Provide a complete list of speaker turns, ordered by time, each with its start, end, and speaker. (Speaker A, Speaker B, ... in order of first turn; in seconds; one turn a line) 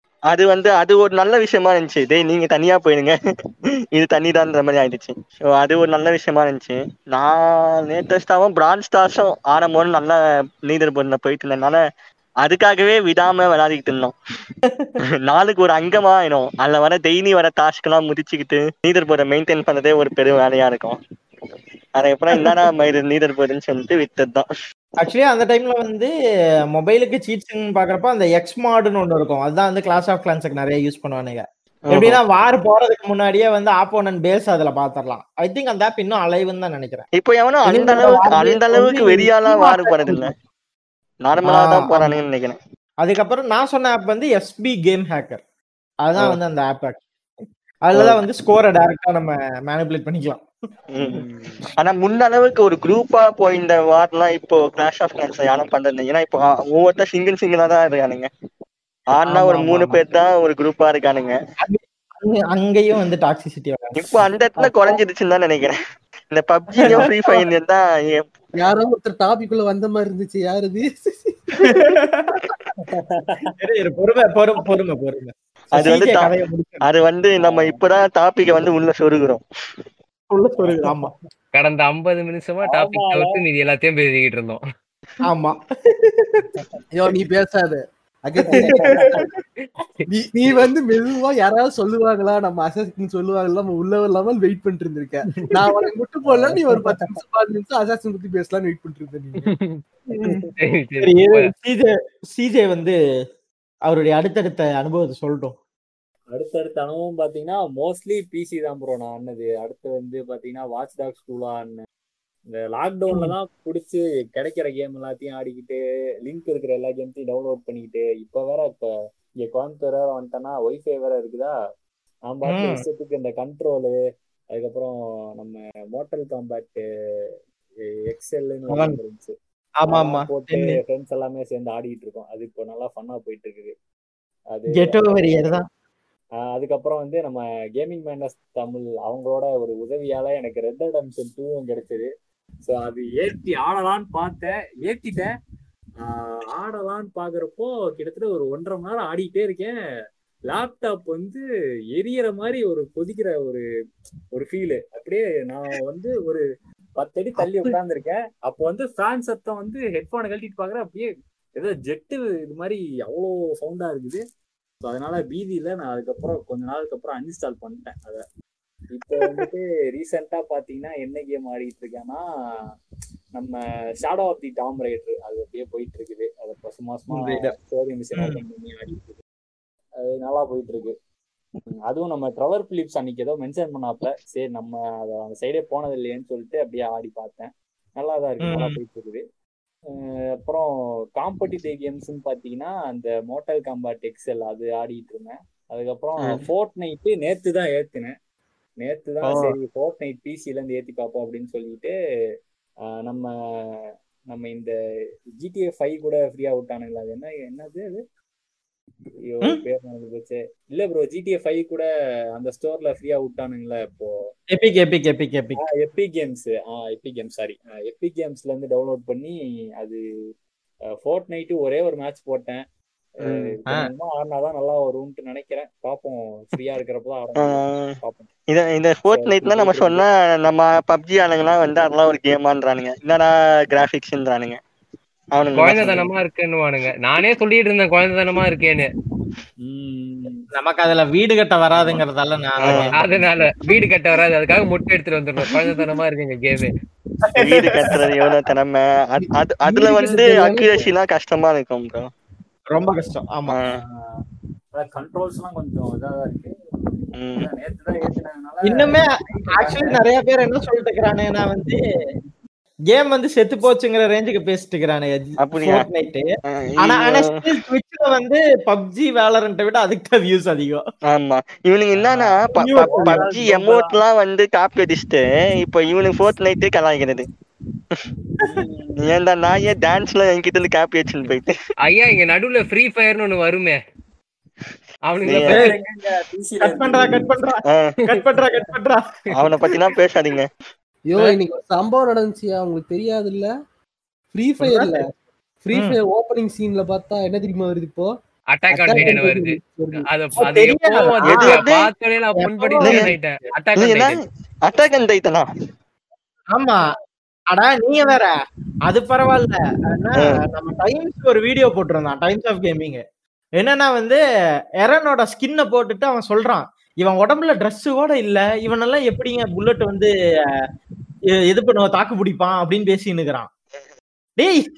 Speaker A: 0.3-3.1
Speaker A: 3.9-11.8
Speaker A: 12.4-14.1
Speaker B: 14.7-14.9
Speaker A: 15.2-21.0
Speaker A: 22.0-24.5
Speaker B: 25.0-26.1
Speaker B: 26.7-37.0
Speaker A: 31.9-32.2
Speaker A: 37.1-40.3
Speaker B: 37.6-40.3
Speaker A: 41.2-42.6
Speaker B: 41.4-42.2
Speaker B: 43.0-45.4
Speaker B: 46.0-47.0
Speaker B: 47.8-50.4
Speaker A: 47.9-48.2
Speaker A: 50.9-51.3
Speaker C: 51.3-51.6
Speaker A: 51.8-58.3
Speaker A: 59.1-61.3
Speaker B: 59.2-60.0
Speaker B: 61.6-64.0
Speaker A: 64.0-65.7
Speaker A: 66.3-68.3
Speaker B: 66.8-67.1
Speaker D: 68.6-71.9
Speaker B: 71.6-72.5
Speaker C: 72.8-73.5
Speaker B: 73.6-76.8
Speaker A: 75.7-76.3
Speaker A: 76.8-79.4
Speaker C: 77.4-77.8
Speaker B: 80.3-81.1
Speaker C: 80.6-81.1
Speaker E: 81.5-84.6
Speaker C: 82.6-83.4
Speaker B: 85.2-86.5
Speaker D: 86.9-89.0
Speaker B: 88.5-89.1
Speaker C: 88.8-89.2
Speaker E: 89.6-90.1
Speaker D: 90.1-99.5
Speaker E: 95.4-95.6
Speaker E: 99.4-99.8
Speaker B: 100.1-100.4
Speaker E: 100.5-101.5
Speaker B: 101.0-103.0
Speaker B: 103.9-105.5
Speaker C: 106.3-111.8
Speaker C: 112.5-118.9
Speaker C: 119.4-121.5
Speaker C: 122.3-123.9
Speaker B: 122.5-122.8
Speaker C: 124.5-126.8
Speaker C: 128.1-129.3
Speaker B: 128.7-129.0
Speaker B: 129.8-130.8
Speaker C: 129.9-133.7
Speaker C: 134.5-135.6
Speaker B: 134.7-135.7
Speaker C: 136.5-142.1
Speaker C: 142.6-145.3
Speaker C: 146.0-149.7
Speaker C: 150.5-153.6
Speaker C: 154.3-156.4
Speaker C: 157.0-164.2
Speaker B: 157.4-157.8
Speaker C: 164.8-168.2
Speaker C: 168.9-172.2
Speaker B: 169.2-169.5
Speaker C: 173.3-179.2
Speaker B: 177.1-177.5
Speaker C: 180.0-180.9
Speaker C: 181.9-189.2
Speaker B: 188.4-188.8
Speaker C: 189.9-198.1
Speaker C: 198.8-201.9
Speaker B: 199.2-199.6
Speaker C: 203.0-204.7
Speaker C: 205.4-208.0
Speaker C: 209.3-211.8
Speaker C: 212.3-214.1
Speaker B: 214.5-215.6
Speaker C: 215.6-220.0
Speaker C: 221.0-222.6
Speaker A: 223.2-223.5
Speaker C: 223.2-228.3
Speaker A: 227.4-227.9
Speaker A: 228.5-234.6
Speaker C: 229.1-230.0
Speaker A: 235.3-236.1
Speaker E: 235.6-238.9
Speaker C: 239.6-240.5
Speaker B: 240.5-243.0
Speaker C: 241.7-242.0
Speaker A: 242.6-242.9
Speaker E: 242.9-246.7
Speaker B: 247.3-248.1
Speaker A: 247.3-252.1
Speaker D: 249.6-250.9
Speaker B: 252.7-253.5
Speaker A: 253.5-253.8
Speaker C: 253.7-254.2
Speaker C: 254.8-260.0
Speaker A: 257.1-257.5
Speaker B: 258.6-261.8
Speaker B: 262.9-266.3
Speaker A: 265.4-265.9
Speaker A: 266.4-267.4
Speaker B: 266.8-270.8
Speaker A: 271.1-277.2
Speaker C: 271.9-274.0
Speaker B: 272.6-273.2
Speaker C: 278.4-279.1
Speaker A: 279.0-281.5
Speaker E: 281.9-283.8
Speaker E: 285.1-285.7
Speaker A: 285.2-285.6
Speaker B: 285.4-285.7
Speaker C: 285.5-287.3
Speaker B: 286.6-289.0
Speaker A: 287.6-287.9
Speaker A: 289.3-290.5
Speaker D: 291.1-293.5
Speaker D: 294.3-295.0
Speaker B: 294.6-295.0
Speaker D: 295.6-298.1
Speaker E: 298.5-304.2
Speaker D: 298.7-300.0
Speaker B: 300.4-301.6
Speaker A: 301.3-301.9
Speaker B: 302.4-303.1
Speaker A: 302.8-303.1
Speaker A: 303.8-304.1
Speaker A: 304.6-305.4
Speaker B: 307.5-308.3
Speaker B: 308.9-313.0
Speaker B: 313.6-314.2
Speaker B: 314.8-320.1
Speaker B: 321.5-323.5